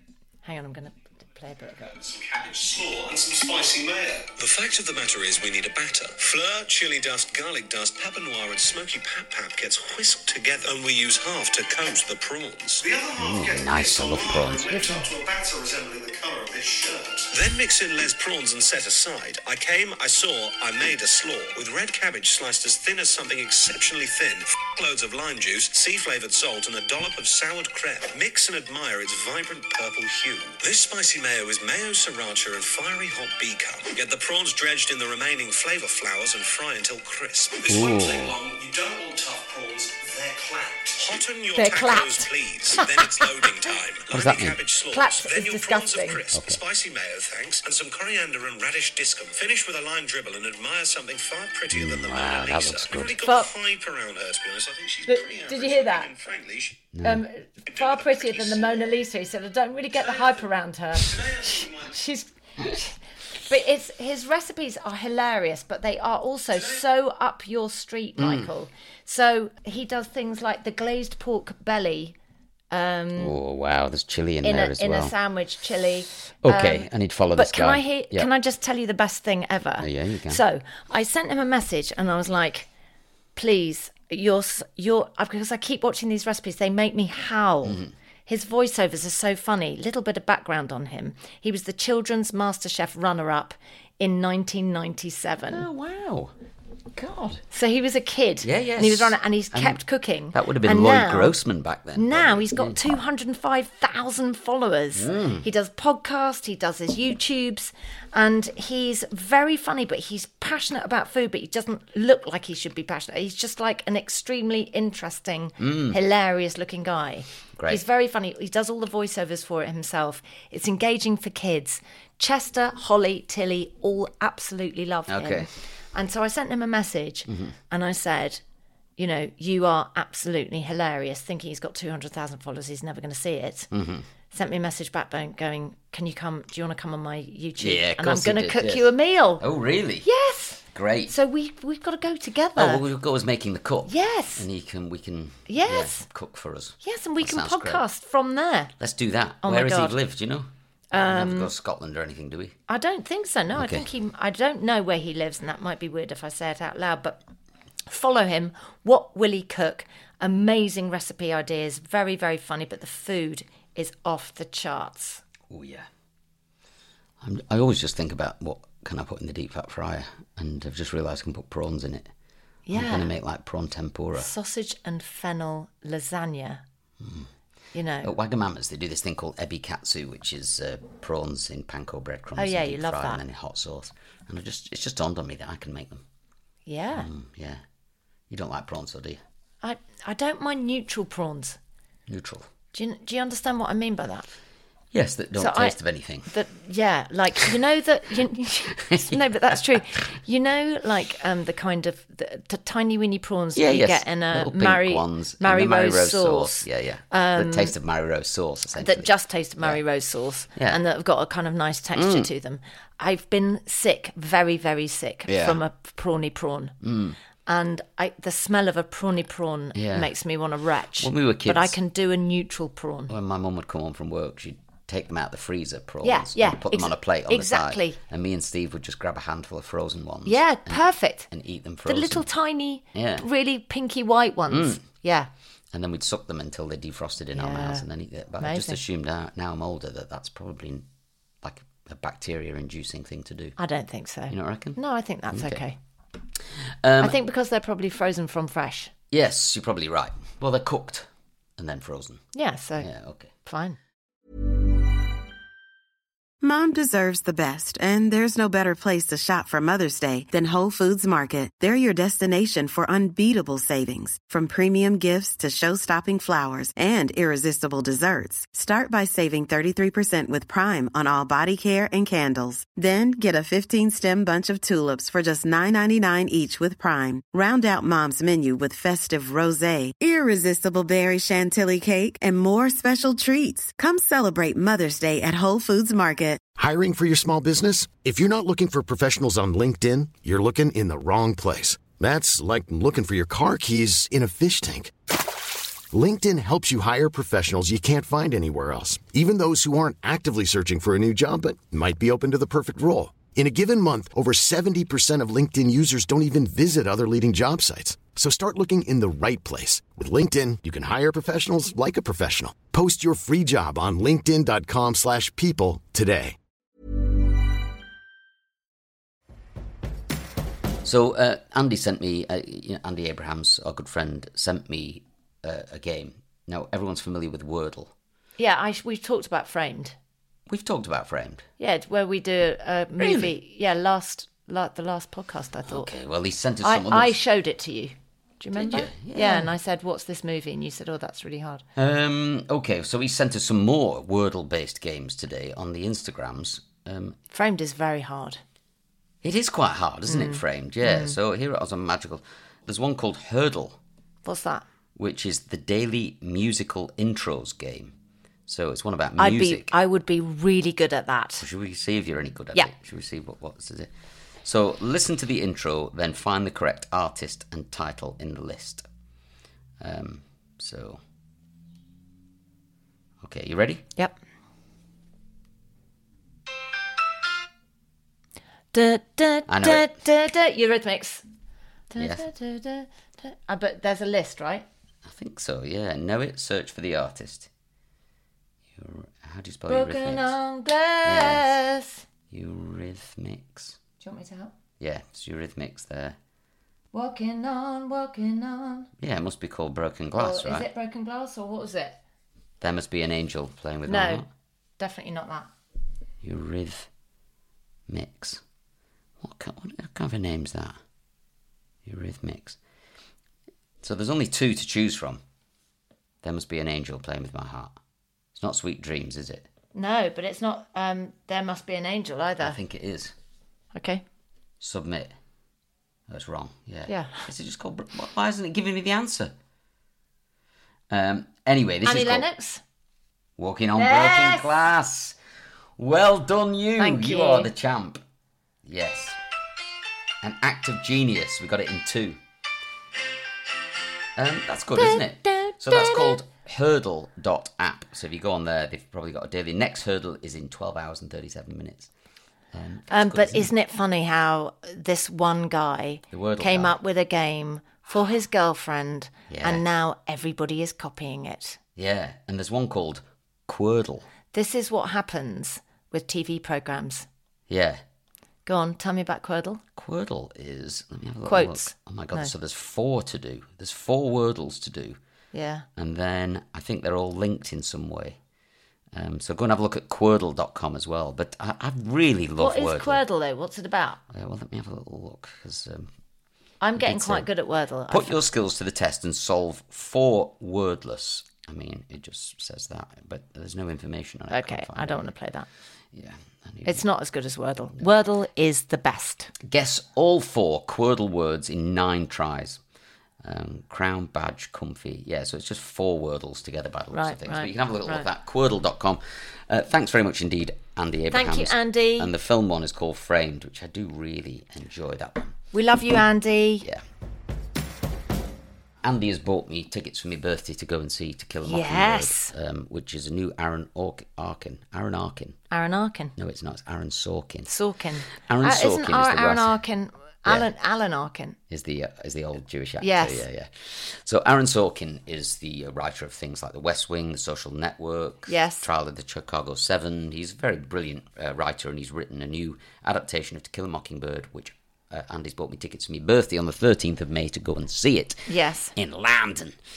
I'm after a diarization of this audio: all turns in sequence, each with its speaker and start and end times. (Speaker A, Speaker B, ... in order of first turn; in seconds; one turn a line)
Speaker A: 0.4-2.0
Speaker B: 2.0-56.9
Speaker C: 13.2-14.8
Speaker A: 14.7-15.0
Speaker C: 37.7-38.4
Speaker A: 41.5-43.3
Speaker C: 44.1-44.6
Speaker A: 44.9-46.2
Speaker C: 46.3-46.6
Speaker C: 51.7-53.2
Speaker A: 53.2-53.5
Speaker A: 55.0-56.1
Speaker C: 56.9-57.2
Speaker A: 57.0-72.2
Speaker B: 57.7-59.0
Speaker B: 60.0-60.4
Speaker B: 61.0-61.9
Speaker C: 68.2-68.5
Speaker A: 72.7-73.3
Speaker C: 73.2-75.1
Speaker A: 74.4-82.7
Speaker C: 76.4-78.3
Speaker C: 79.8-80.4
Speaker A: 83.3-95.7
Speaker C: 87.6-87.9
Speaker C: 95.5-96.3
Speaker C: 96.9-97.4
Speaker A: 97.5-101.4
Speaker C: 98.4-102.8
Speaker A: 101.9-128.4
Speaker C: 104.9-105.5
Speaker C: 115.6-116.0
Speaker C: 117.5-117.8
Speaker C: 125.1-125.5
Speaker C: 127.3-127.5
Speaker A: 129.0-133.7
Speaker C: 133.7-134.1
Speaker A: 134.3-139.4
Speaker C: 137.6-138.9
Speaker C: 139.4-140.1
Speaker A: 140.0-142.8
Speaker C: 140.7-141.1
Speaker C: 142.6-147.8
Speaker A: 143.8-144.4
Speaker A: 145.5-146.1
Speaker A: 146.8-148.7
Speaker C: 148.8-152.6
Speaker A: 149.4-150.0
Speaker A: 150.9-151.5
Speaker A: 152.7-157.2
Speaker C: 153.5-153.8
Speaker A: 157.9-165.2
Speaker C: 165.5-165.9
Speaker C: 167.2-172.1
Speaker A: 172.7-173.1
Speaker C: 172.7-174.3
Speaker A: 174.2-176.6
Speaker C: 177.0-177.3
Speaker A: 177.7-178.1
Speaker C: 178.0-186.0
Speaker A: 182.3-183.2
Speaker A: 186.7-187.1
Speaker C: 186.9-187.6
Speaker C: 188.3-189.2
Speaker A: 189.6-191.6
Speaker C: 192.1-192.5
Speaker A: 192.7-194.3
Speaker C: 194.9-196.3
Speaker A: 195.3-207.7
Speaker C: 198.7-199.8
Speaker C: 203.5-209.1
Speaker A: 208.8-216.8
Speaker C: 211.9-212.3
Speaker C: 215.3-215.6
Speaker C: 216.8-217.2
Speaker A: 217.4-223.1
Speaker C: 219.7-220.1
Speaker C: 221.0-221.7
Speaker C: 223.1-232.2
Speaker A: 226.0-228.0
Speaker A: 230.2-231.3
Speaker A: 231.8-235.3
Speaker C: 232.9-233.2
Speaker C: 234.5-234.8
Speaker C: 235.7-240.8
Speaker A: 237.3-237.9
Speaker A: 238.4-238.8
Speaker C: 241.4-243.6
Speaker A: 243.6-245.8
Speaker C: 244.3-244.8
Speaker C: 245.3-245.6
Speaker C: 246.8-247.2
Speaker A: 247.0-248.9
Speaker C: 249.1-252.2
Speaker A: 252.3-252.9
Speaker C: 252.8-253.3
Speaker A: 253.4-253.8
Speaker D: 256.4-286.4
Speaker E: 286.6-294.9
Speaker E: 295.9-316.4
Speaker C: 320.8-327.9
Speaker A: 328.4-329.9
Speaker C: 330.5-331.4
Speaker A: 331.6-335.9
Speaker C: 333.0-333.3
Speaker C: 335.6-337.1
Speaker A: 336.6-341.6
Speaker C: 338.5-339.5
Speaker C: 341.8-347.2
Speaker A: 347.3-348.4
Speaker C: 349.2-353.8
Speaker A: 350.1-351.1
Speaker A: 354.2-354.6
Speaker C: 354.9-357.9
Speaker C: 358.5-359.7
Speaker A: 359.2-361.4
Speaker C: 361.4-363.9
Speaker C: 364.4-368.9
Speaker C: 369.8-371.0
Speaker C: 373.2-373.8
Speaker A: 378.7-381.2
Speaker C: 379.5-379.9
Speaker A: 381.9-384.6
Speaker C: 382.0-382.3
Speaker C: 385.0-387.5
Speaker C: 388.7-390.3
Speaker A: 389.7-392.0
Speaker C: 391.0-391.6
Speaker C: 392.3-393.8
Speaker A: 394.0-394.5
Speaker C: 394.8-396.2
Speaker A: 396.9-398.9
Speaker C: 399.0-400.7
Speaker A: 400.1-402.0
Speaker C: 402.6-404.3
Speaker A: 403.9-404.2
Speaker A: 404.8-405.5
Speaker C: 406.2-406.9
Speaker C: 407.9-408.4
Speaker C: 409.2-410.8
Speaker C: 411.8-412.6
Speaker C: 413.8-415.2
Speaker C: 416.2-417.8
Speaker C: 418.3-419.5
Speaker A: 419.7-422.6
Speaker C: 422.4-423.1
Speaker A: 423.7-424.0
Speaker C: 424.6-425.1
Speaker C: 426.1-429.3
Speaker A: 426.9-427.3
Speaker C: 430.9-432.3
Speaker A: 431.8-432.6
Speaker C: 433.4-435.2
Speaker A: 433.8-434.5
Speaker C: 435.8-438.0
Speaker A: 436.8-437.5
Speaker C: 438.6-439.2
Speaker C: 440.2-442.2
Speaker C: 444.1-451.9
Speaker A: 444.8-446.2
Speaker C: 452.5-453.5
Speaker A: 452.9-461.6
Speaker C: 456.1-456.8
Speaker C: 459.3-459.6
Speaker C: 461.8-464.1
Speaker A: 464.3-467.1
Speaker C: 467.5-467.8
Speaker A: 468.4-469.6
Speaker C: 469.8-475.0
Speaker A: 471.2-472.3
Speaker A: 475.3-475.6
Speaker C: 475.8-478.2
Speaker C: 478.9-483.0
Speaker A: 482.4-484.0
Speaker C: 484.1-485.9
Speaker A: 486.6-488.3
Speaker C: 486.8-487.3
Speaker C: 487.9-495.1
Speaker A: 494.3-495.5
Speaker C: 495.9-496.8
Speaker A: 496.6-499.3
Speaker C: 499.4-502.6
Speaker C: 503.2-515.3
Speaker A: 506.9-508.1
Speaker A: 511.1-512.1
Speaker A: 515.5-516.7
Speaker C: 518.8-525.4
Speaker A: 521.4-522.3
Speaker A: 525.5-526.1
Speaker C: 526.1-527.5
Speaker A: 527.5-531.4
Speaker C: 528.1-529.6
Speaker C: 531.5-549.6
Speaker A: 532.8-533.2
Speaker A: 538.3-538.7
Speaker A: 548.3-548.7